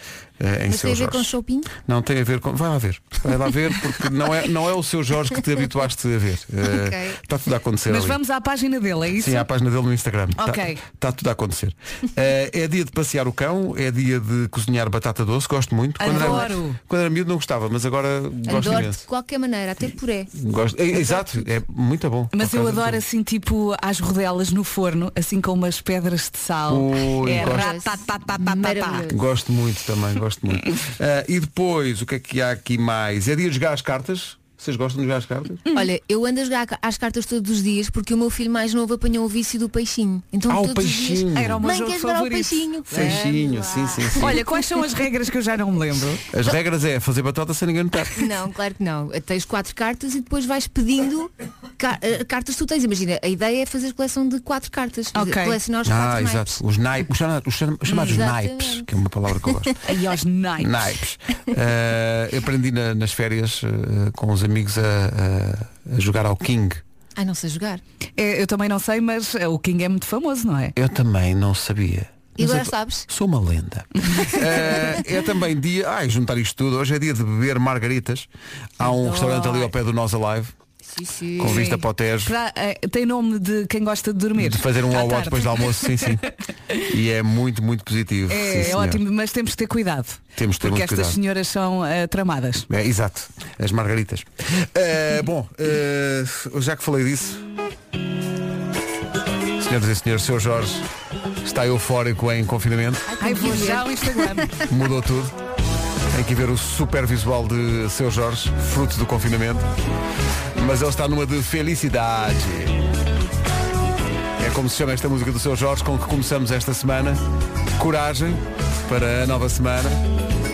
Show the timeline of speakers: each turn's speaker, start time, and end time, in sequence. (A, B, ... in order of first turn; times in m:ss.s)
0:00.4-0:08.2 A
0:00.7-0:01.7 B
0:06.6-0:07.2 B
0:07.9-0:09.4 C
0:09.2-0:19.0 A
0:10.4-0:10.8 C
0:16.0-0:16.8 C
0:16.1-0:16.4 B
0:18.5-0:20.3 B
0:20.4-0:23.0 A
0:22.3-0:29.0 C
0:26.7-0:27.7 A
0:27.2-0:29.2 B
0:29.1-0:35.6 A
0:35.6-0:35.9 C
0:35.7-0:44.4 B
0:40.5-0:41.6 A
0:41.3-0:43.3 C
0:42.9-0:44.4 A
0:44.2-0:46.2 C
0:46.3-0:48.2 A
0:48.1-0:56.6 B
0:55.1-0:55.6 C
0:55.8-0:59.7 A
0:57.9-0:58.2 C
0:58.0-0:58.8 B
0:59.9-1:00.7 C
1:00.6-1:06.8 A
1:07.2-1:07.8 B
1:08.2-1:10.7 C
1:10.8-1:18.3 A
1:12.4-1:13.0 B
1:18.8-1:20.5 A
1:18.9-1:19.5 B
1:19.1-1:19.6 C
1:20.9-1:21.7 B
1:21.4-1:22.3 A
1:21.4-1:26.2 C
1:24.4-1:26.2 A
1:26.8-1:29.0 A
1:28.3-1:32.6 C
1:30.3-1:31.2 A
1:32.7-1:37.4 A
1:39.6-1:40.8 A
1:41.4-1:43.1 A
1:43.1-1:44.2 B
1:43.2-1:44.6 C
1:44.7-1:45.3 A
1:46.1-1:49.6 A
1:50.6-1:52.8 A
1:54.4-1:57.2 A
1:57.8-2:00.0 A